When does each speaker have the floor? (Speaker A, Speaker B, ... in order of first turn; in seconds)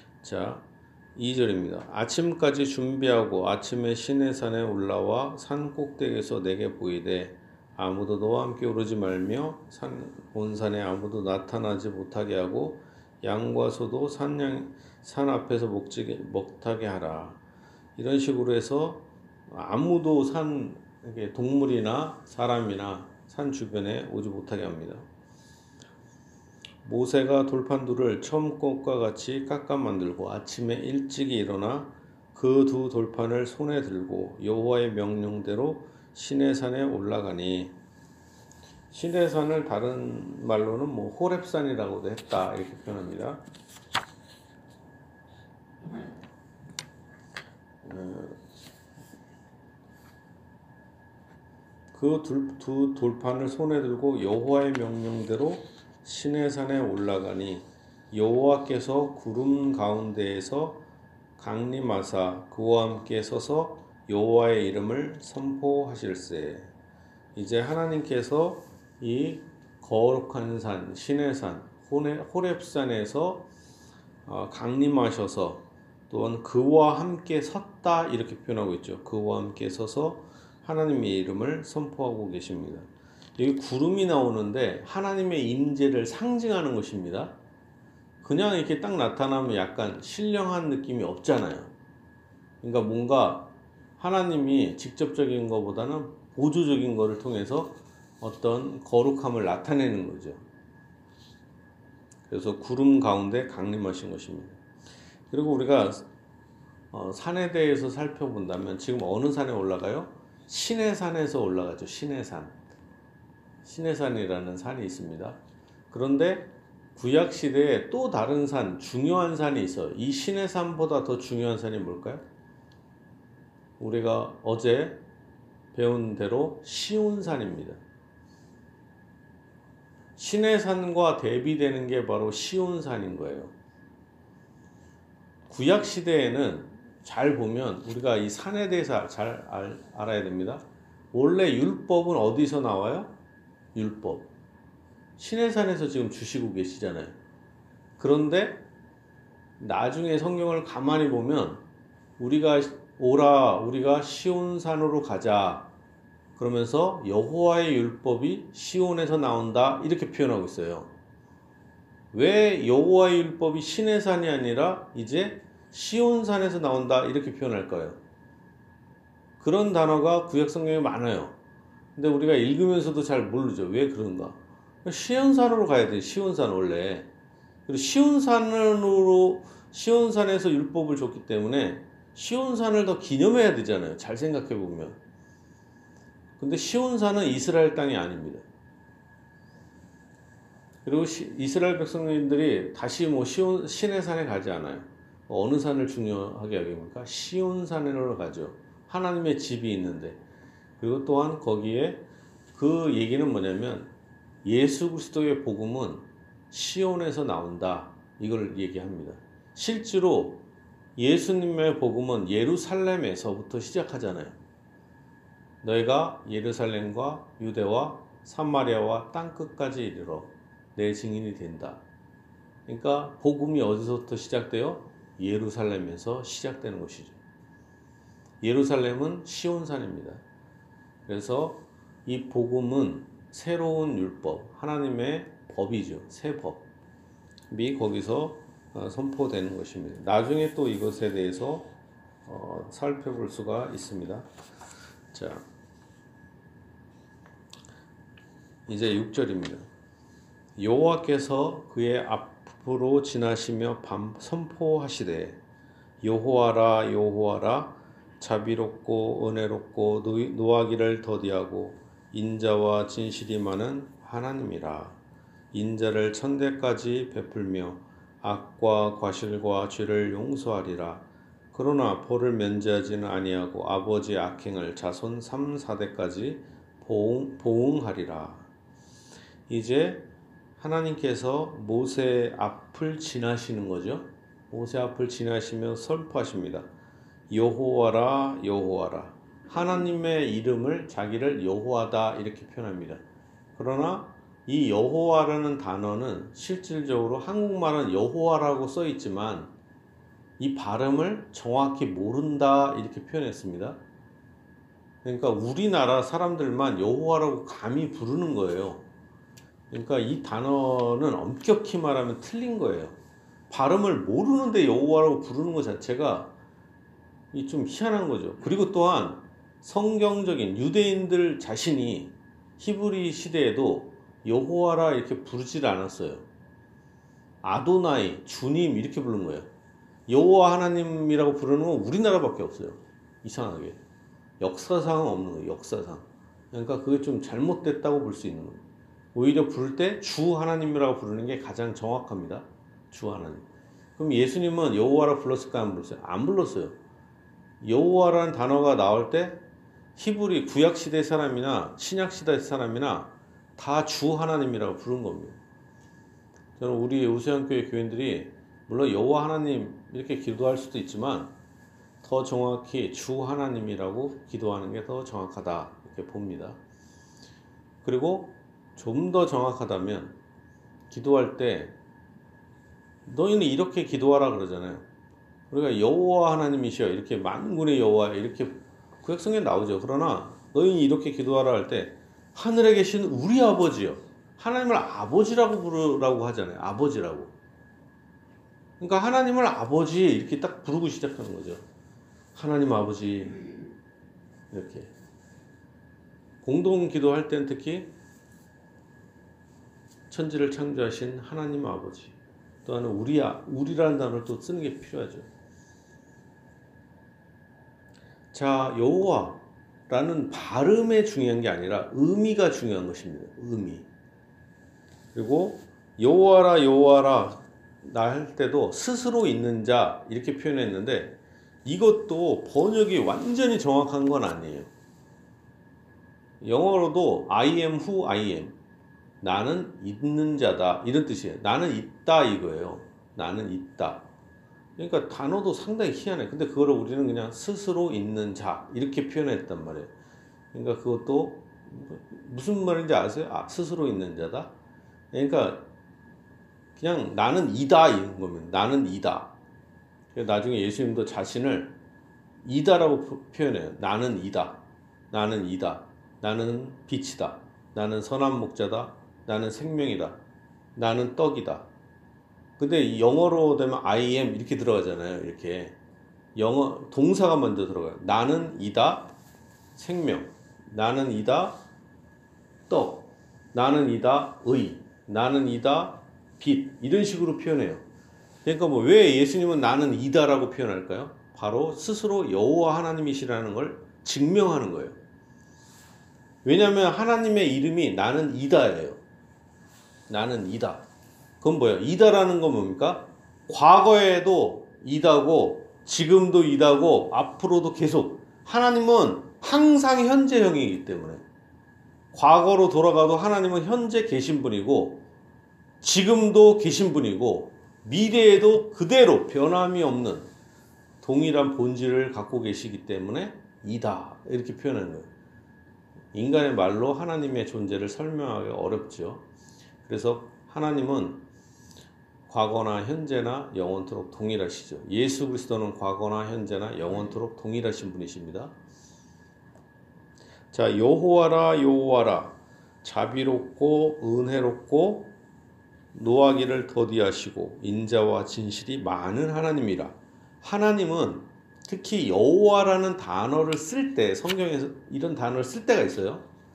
Speaker A: 0.2-17.4, 17.9-25.1, 26.8-37.7, 38.9-43.4, 47.8-48.4, 51.9-60.8, 61.4-66.7, 67.3-73.5, 74.2-87.3, 88.2-91.7, 92.6-100.4, 102.3-104.6, 105.3-106.1, 106.9-112.5, 113.6-115.4, 115.9-122.2, 123.8-125.0, 125.7-127.8, 130.2-133.5, 135.5-143.1, 143.7-144.3, 145.2-147.1, 148.0-148.6, 149.6-151.6, 152.2-155.7, 156.3-160.9, 162.1-168.0, 169.4-171.3, 171.9-177.1, 177.7-185.0, 186.4-188.4, 190.8-200.2, 200.8-203.9, 204.4-210.4, 211.0-214.4, 215.6-221.8, 222.7-227.2, 228.4-230.2, 231.1-236.7, 237.5-241.7, 242.2-244.2, 245.1-245.4, 248.7-249.6, 250.6-255.4, 256.0-265.0, 265.5-278.5, 279.5-280.1, 280.6-286.7, 287.3-293.0, 293.5-299.5, 300.4-303.8, 305.0-308.8, 309.7-312.9, 313.5-316.3, 317.3-326.2, 327.4-329.5, 330.1-333.8, 334.4-338.6, 339.1-343.4, 344.0-346.8, 347.6-349.4, 349.9-355.4, 356.6-361.3, 362.0-366.6, 367.8-370.1, 370.9-371.7, 373.1-374.8, 375.5-387.3, 388.8-391.6, 392.3-393.6, 394.5-394.9, 396.4-397.9, 400.1-405.3, 408.3-413.9, 415.1-424.7, 426.4-428.5, 429.2-434.1, 434.8-439.9, 440.5-444.5, 445.1-445.6, 446.8-449.3, 450.1-451.7, 452.4-460.2, 460.7-461.7, 462.6-465.8, 466.3-469.1, 469.8-471.6, 472.7-477.8, 478.4-485.0, 486.4-489.0, 490.1-490.8, 491.4-501.2, 502.1-505.0, 505.8-510.3, 511.0-515.1, 516.1-519.2, 519.8-521.2, 522.3-528.5, 530.5-535.1, 535.9-546.2